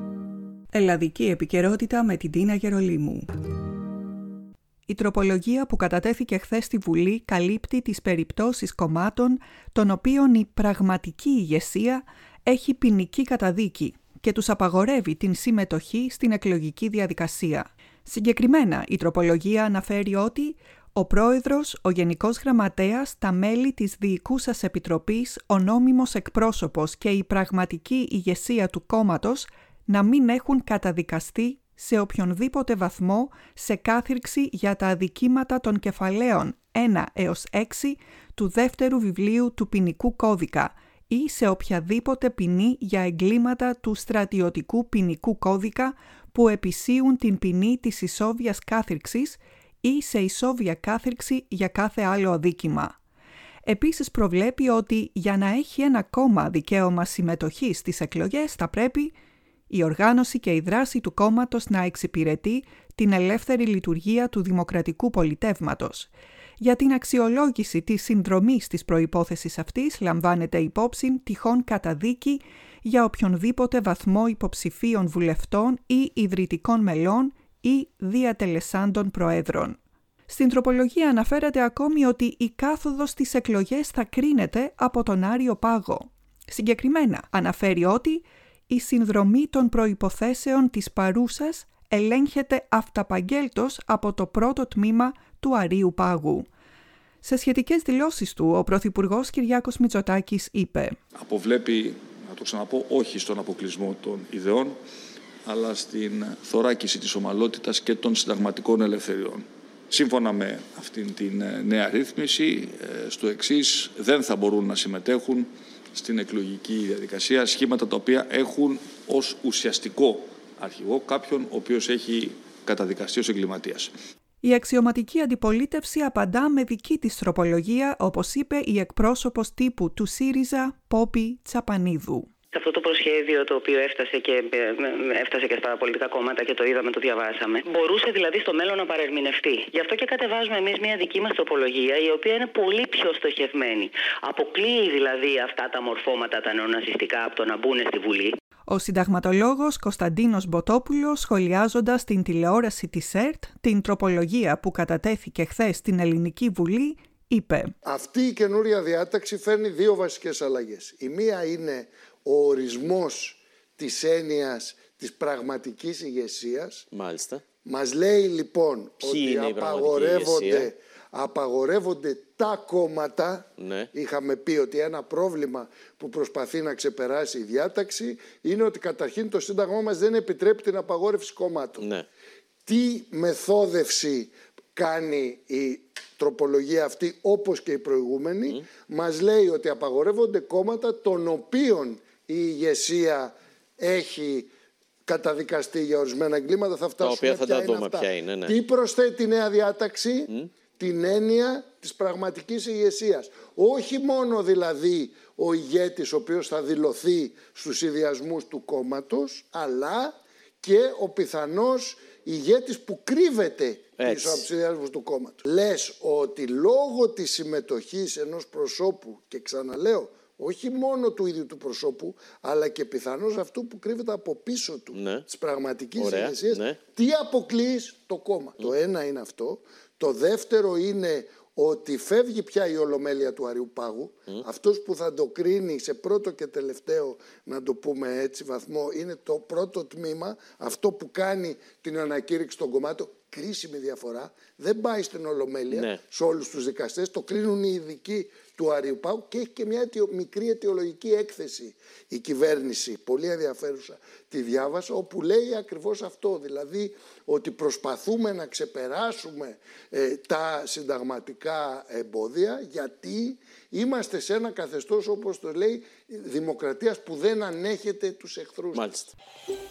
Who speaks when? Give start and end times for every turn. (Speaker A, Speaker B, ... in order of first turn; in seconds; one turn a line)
Speaker A: 0.7-3.4
Speaker A: 4.9-52.9
Speaker A: 53.6-59.1
Speaker A: 59.7-96.5
Speaker A: 97.2-101.0
Speaker B: 101.2-104.7
Speaker B: 105.5-123.9
Speaker A: 124.4-132.3
Speaker C: 132.5-148.3
Speaker A: 148.7-157.7
Speaker D: 157.8-166.9
Speaker E: 166.9-167.4
Speaker D: 167.6-181.9
Speaker E: 169.0-170.7
Speaker E: 173.6-173.9
Speaker E: 181.8-182.1
Speaker D: 182.7-194.5
Speaker D: 195.1-268.9
Speaker E: 197.0-198.6
Speaker E: 214.0-214.4
Speaker E: 224.9-225.3
Speaker E: 226.0-226.8
Speaker E: 245.7-246.0
Speaker E: 268.7-269.1